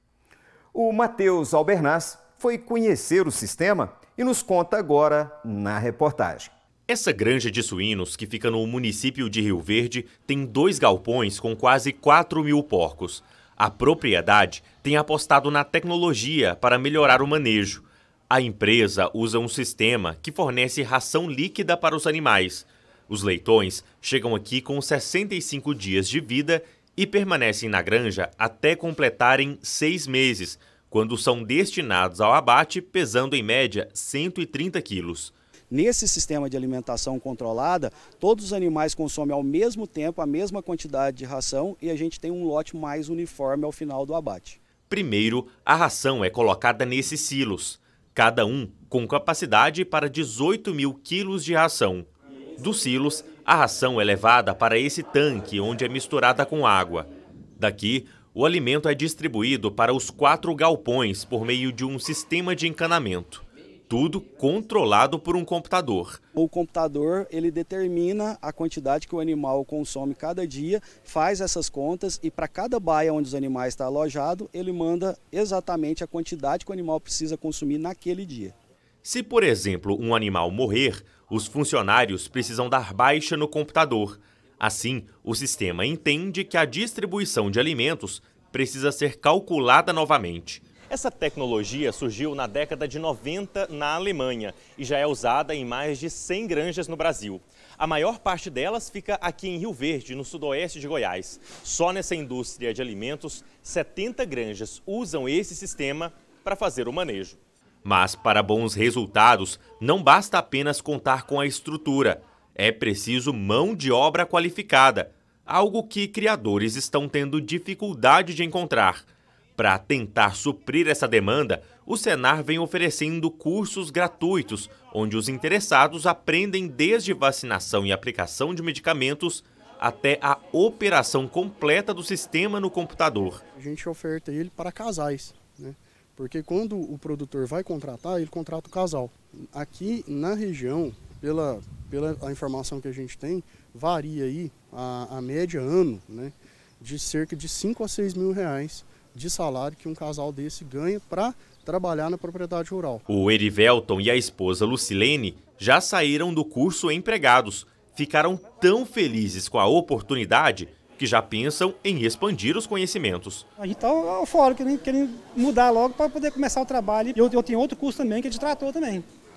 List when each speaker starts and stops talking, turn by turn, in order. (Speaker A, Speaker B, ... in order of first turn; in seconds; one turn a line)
Speaker A: 0.7-6.5
Speaker B: 6.9-35.3
Speaker C: 35.7-44.6
Speaker B: 44.9-66.2
Speaker C: 66.3-78.5
Speaker B: 79.0-119.1
Speaker B: 119.6-133.4
Speaker D: 133.6-153.0
Speaker B: 153.1-163.5
Speaker E: 163.6-169.1